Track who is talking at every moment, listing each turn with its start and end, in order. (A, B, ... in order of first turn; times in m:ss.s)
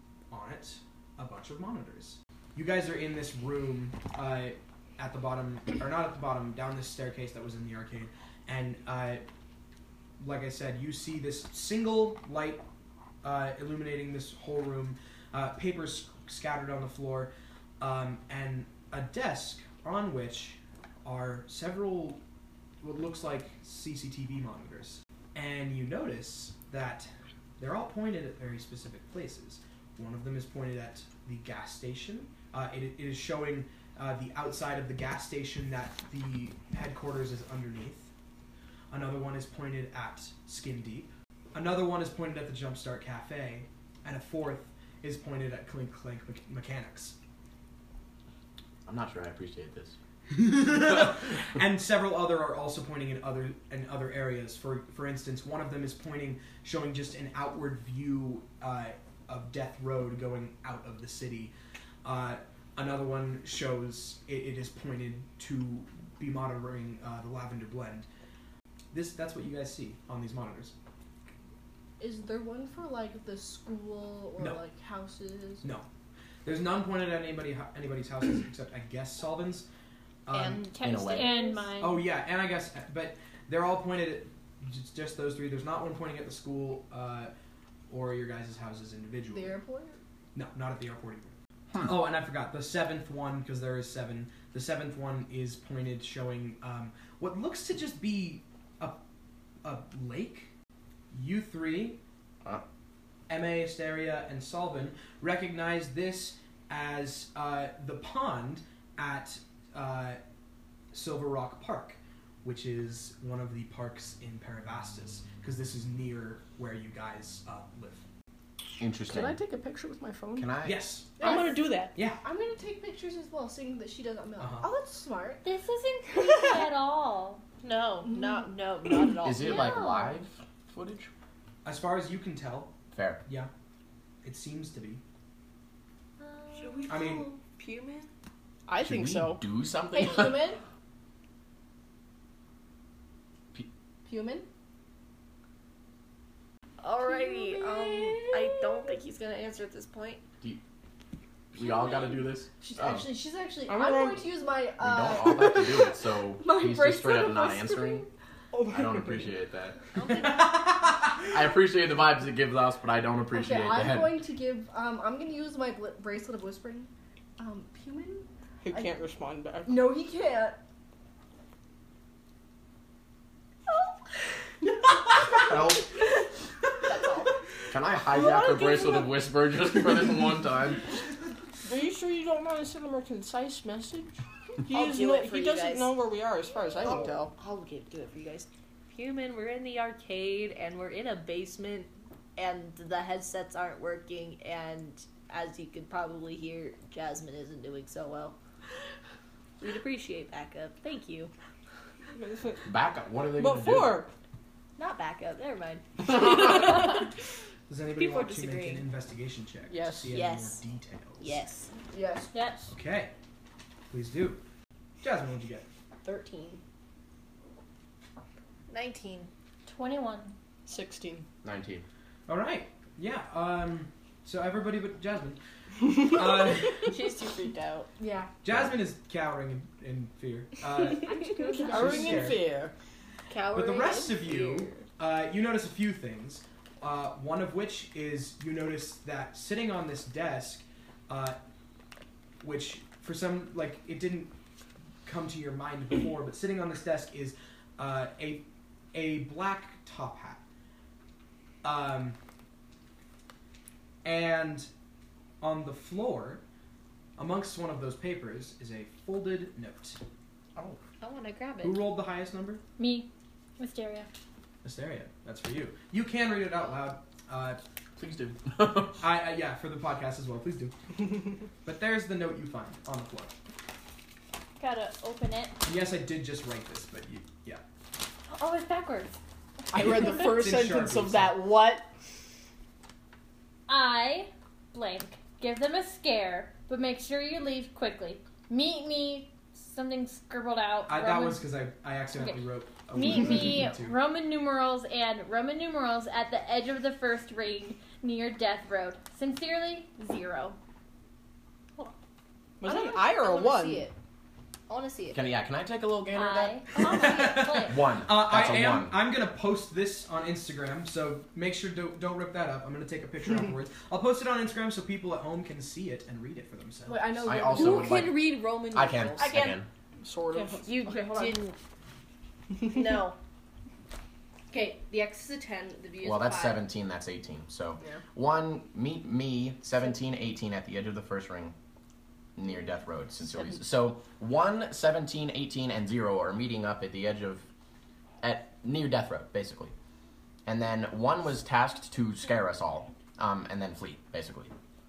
0:00.3-0:09.2 A
0:10.2-0:12.6 A
0:13.2-0:22.2 A
0:22.8-0:38.1 A
0:38.9-0:47.2 A
0:48.8-0:50.0 B
0:50.3-1:01.5 A
1:02.0-1:08.1 A
1:08.9-1:10.7 A
1:12.0-1:15.7 C
1:15.6-1:15.9 A
1:16.4-1:19.7 A
1:20.3-1:20.6 A
1:20.3-1:21.6 D
1:20.7-1:22.0 E
1:20.8-1:21.3 B
1:21.8-1:27.3 A
1:27.9-1:29.6 A
1:29.3-1:30.0 C
1:30.3-1:39.0 A
1:39.6-1:40.5 A
1:41.1-1:42.0 A
1:43.3-1:50.2 A
1:50.9-1:58.0 A
1:58.8-1:59.4 B
1:59.0-2:00.6 F
2:00.4-2:00.8 B
2:00.6-2:02.2 A
2:01.2-2:05.4 C
2:01.2-2:01.9 F
2:04.4-2:04.7 A
2:05.4-2:07.4 E
2:07.6-2:09.9 D
2:09.2-2:10.4 B
2:09.4-2:10.2 E
2:10.7-2:11.1 F
2:11.6-2:12.7 A
2:12.9-2:13.2 B
2:14.2-2:15.0 A
2:16.2-2:18.1 D
2:16.9-2:17.3 A
2:18.7-2:19.4 F
2:18.8-2:20.5 B
2:19.9-2:20.6 C
2:24.0-2:24.4 C
2:26.8-2:30.2 D
2:27.0-2:28.9 C
2:31.5-2:33.1 B
2:31.6-2:38.1 C
2:33.7-2:34.3 F
2:34.8-2:38.0 B
2:38.5-2:39.3 F
2:38.7-2:39.8 B
2:40.0-2:40.6 D
2:40.2-2:41.3 A
2:41.2-2:44.2 B
2:43.3-2:48.9 C
2:48.6-2:49.9 F
2:49.6-2:50.6 C
2:55.2-2:55.9 B
2:56.8-2:57.3 D
2:57.7-3:00.9 B
2:58.2-2:59.1 C
3:01.6-3:04.1 F
3:04.6-3:07.3 F
3:04.7-3:05.9 D
3:06.8-3:18.4 D
3:19.6-3:21.3 D
3:22.1-3:22.7 F
3:22.6-3:24.0 B
3:23.3-3:24.1 F
3:24.8-3:27.1 D
3:27.7-3:31.4 A
3:28.0-3:28.8 D
3:29.7-3:30.1 F
3:30.1-3:30.6 D
3:31.2-3:31.7 D
3:31.9-3:32.4 C
3:32.3-3:32.7 E
3:32.7-3:33.1 A
3:33.9-3:34.4 A
3:35.0-3:35.6 A
3:36.0-3:36.6 F
3:38.7-3:39.3 D
3:39.7-3:40.3 E
3:40.6-3:41.2 F
3:41.4-3:41.8 B
3:42.3-3:46.9 A
3:46.7-3:47.9 D
3:48.0-3:48.3 C
3:48.4-3:51.1 A
3:50.9-3:52.4 C
3:51.2-3:51.8 D
3:51.4-3:52.7 F
3:51.7-3:52.4 A
3:53.3-3:54.8 D
3:53.5-4:01.4 A
4:02.4-4:04.3 A
4:05.0-4:10.4 A
4:11.6-4:12.2 A
4:14.0-4:14.7 A
4:15.4-4:16.4 A
4:17.2-4:20.0 A
4:20.6-4:20.8 B
4:21.0-4:21.9 D
4:21.6-4:22.6 A
4:22.8-4:24.2 E
4:24.6-4:27.6 A
4:28.0-4:29.0 B
4:29.0-4:30.7 A
4:31.6-4:33.3 A
4:34.6-4:35.6 E
4:35.6-4:37.6 A
4:38.3-4:39.2 E
4:39.7-4:41.9 F
4:39.7-4:41.4 A
4:43.7-4:51.5 E
4:50.9-4:54.0 A
4:52.2-5:00.3 E
5:00.0-5:00.6 D
5:02.6-5:03.9 F
5:02.6-5:03.9 D
5:04.7-5:05.2 D
5:05.1-5:06.6 B
5:06.1-5:07.8 E
5:06.8-5:17.1 A
5:07.6-5:09.0 B
5:16.8-5:18.2 C
5:17.2-5:19.7 B
5:17.4-5:19.5 D
5:19.2-5:19.6 C
5:20.0-5:20.8 F
5:20.3-5:21.6 D
5:20.9-5:21.4 C
5:22.6-5:23.2 D
5:24.5-5:26.6 C
5:26.0-5:31.5 B
5:32.4-5:37.5 B
5:38.2-5:39.7 B
5:40.4-5:44.5 B